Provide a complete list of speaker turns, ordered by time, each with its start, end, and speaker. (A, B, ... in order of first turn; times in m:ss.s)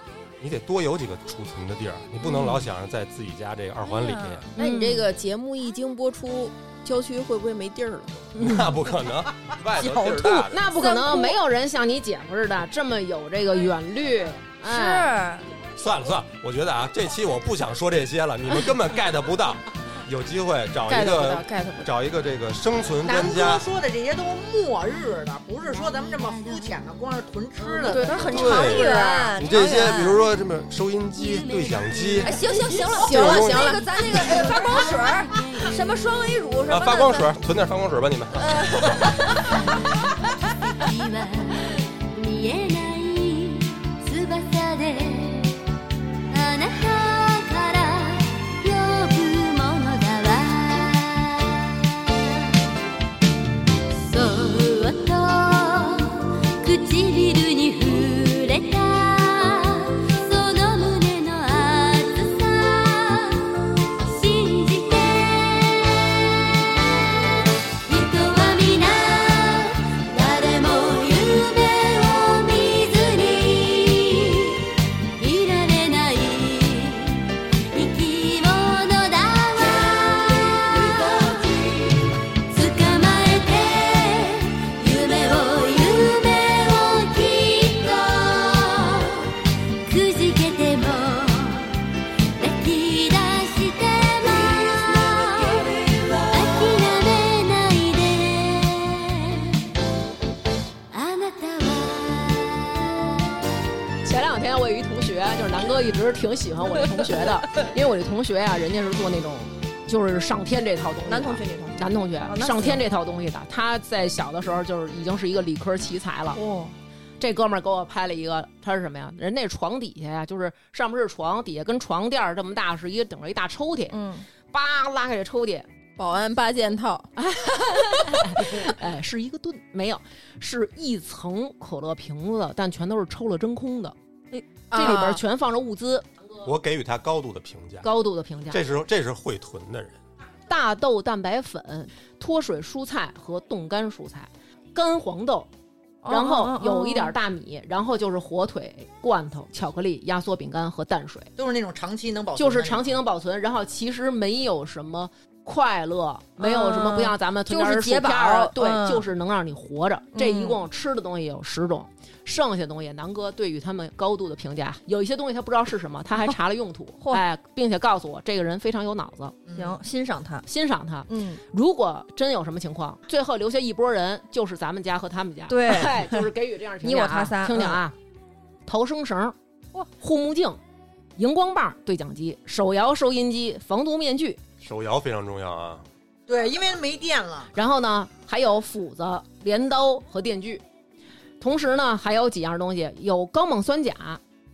0:00.4-0:04.5 A
0:02.2-0:02.6 B
0:03.8-0:04.4 C
0:04.6-0:08.3 D
0:04.6-0:05.1 B
0:08.3-0:08.7 B
0:08.4-0:10.7 A
0:09.8-0:11.4 C
0:10.5-0:15.1 B
0:14.6-0:15.6 C
0:15.8-0:23.7 A
0:20.9-0:21.9 D
0:23.0-0:29.3 E
0:25.6-0:27.1 F
0:27.6-0:28.6 F
0:27.8-0:30.2 C
0:27.9-0:28.2 D
0:28.2-0:32.4 A
0:28.8-0:29.3 D
0:31.1-0:36.0 F
0:32.2-0:37.3 C
0:33.0-0:33.8 D
0:33.1-0:33.8 A
0:34.3-0:34.8 E
0:36.7-0:39.1 A
0:38.4-0:39.4 C
0:40.8-0:45.6 F
0:46.3-0:52.4 F
0:53.9-1:29.3 F
1:29.8-1:31.8 F
1:32.4-1:39.6 F
1:40.9-1:43.2 F
1:44.0-1:56.4 B
1:51.1-1:52.8 C
1:56.4-1:56.7 C
1:57.2-2:04.0 B
2:03.9-2:04.2 C
2:04.5-2:05.7 B
2:06.0-2:07.1 D
2:07.1-2:14.0 B
2:14.7-2:15.2 D
2:14.7-2:16.1 B
2:16.4-2:17.9 A
2:17.8-2:18.6 B
2:18.5-2:20.0 A
2:20.5-2:25.5 B
2:26.0-2:27.1 C
2:26.1-2:31.3 B
2:31.4-2:33.0 E
2:32.4-2:49.4 B
2:36.4-2:39.1 C
2:40.1-2:40.6 C
2:49.5-2:49.8 E
2:49.5-2:50.4 C
2:50.5-2:58.0 B
2:51.1-2:51.4 C
2:55.5-2:56.3 C
2:56.8-2:57.8 C
2:58.7-2:59.4 B
3:00.0-3:00.6 B
3:01.2-3:04.4 B
3:04.6-3:05.8 A
3:06.3-3:07.5 E
3:07.5-3:10.6 B
3:11.4-3:14.2 B